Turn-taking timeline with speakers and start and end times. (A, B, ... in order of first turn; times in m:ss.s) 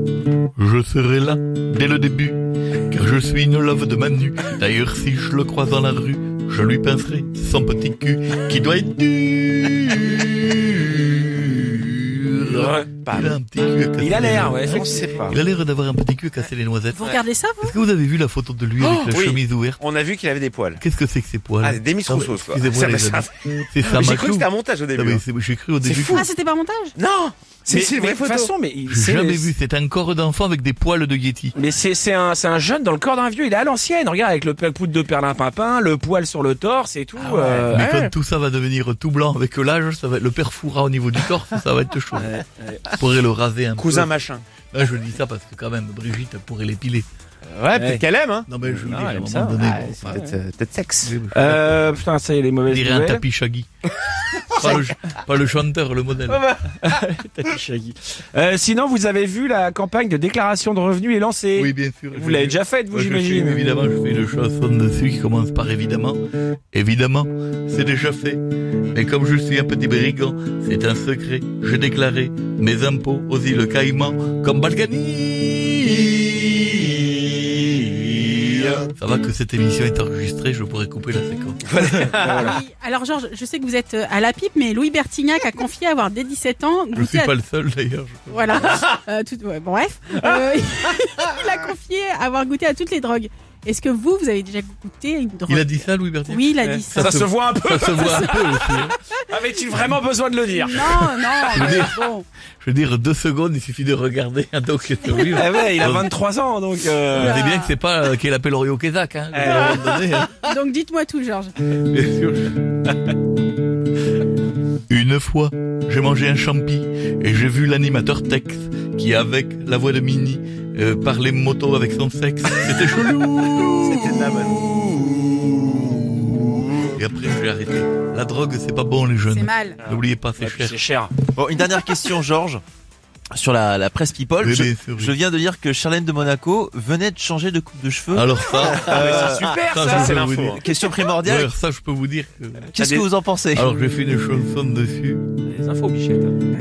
0:00.6-0:02.4 A
0:02.9-0:19.8 A
0:12.5-0:12.9 B
0:13.0-0:13.3 C
0:14.0-0:15.0 B
0:14.7-0:15.4 C
0:16.9-0:17.8 D
0:18.8-0:20.8 C
0:20.8-0:26.3 A
0:21.6-0:25.2 C
0:25.9-0:27.0 D
0:27.0-0:28.5 C
0:27.7-0:29.5 B
0:28.9-0:31.5 A
0:31.5-0:37.9 B
0:37.2-0:38.1 C
0:37.6-0:42.3 A
0:42.2-0:42.9 B
0:42.9-0:44.1 A
0:43.8-0:44.4 C
0:44.7-0:47.1 A
0:47.5-0:48.7 C
0:47.7-0:48.0 B
0:48.5-0:50.2 A
0:48.8-0:50.4 B
0:49.6-0:51.2 C
0:51.0-0:51.8 A
0:51.3-0:53.2 B
0:52.7-0:53.7 A
0:54.5-0:56.4 A
0:56.3-1:03.6 B
1:01.6-1:06.2 A
1:06.7-1:08.4 A
1:08.9-1:16.8 A
1:18.3-1:18.6 C
1:18.9-1:21.9 A
1:21.7-1:22.6 C
1:22.2-1:27.3 D
1:22.2-1:22.6 B
1:26.9-1:28.8 A
1:28.3-1:37.2 D
1:35.5-1:38.9 A
1:36.6-1:38.3 B
1:38.0-1:39.0 D
1:39.3-1:40.8 B
1:40.5-1:42.2 D
1:40.7-1:41.9 A
1:42.6-1:46.1 A
1:45.1-1:45.7 D
1:45.3-1:47.3 B
1:47.1-1:47.8 D
1:47.1-1:50.3 A
1:49.3-1:50.0 B
1:49.4-1:51.5 D
1:51.8-1:52.6 A
1:54.9-2:04.2 A
2:03.8-2:04.6 C
2:06.9-2:10.8 A
2:09.3-2:09.8 D
2:10.4-2:11.1 B
2:11.3-2:12.6 E
2:13.3-2:21.5 E
2:14.4-2:15.2 A
2:18.1-2:20.6 A
2:18.6-2:20.6 C
2:19.0-2:20.6 B
2:21.2-2:22.7 A
2:22.7-2:23.8 E
2:23.5-2:25.2 A
2:25.5-2:26.4 B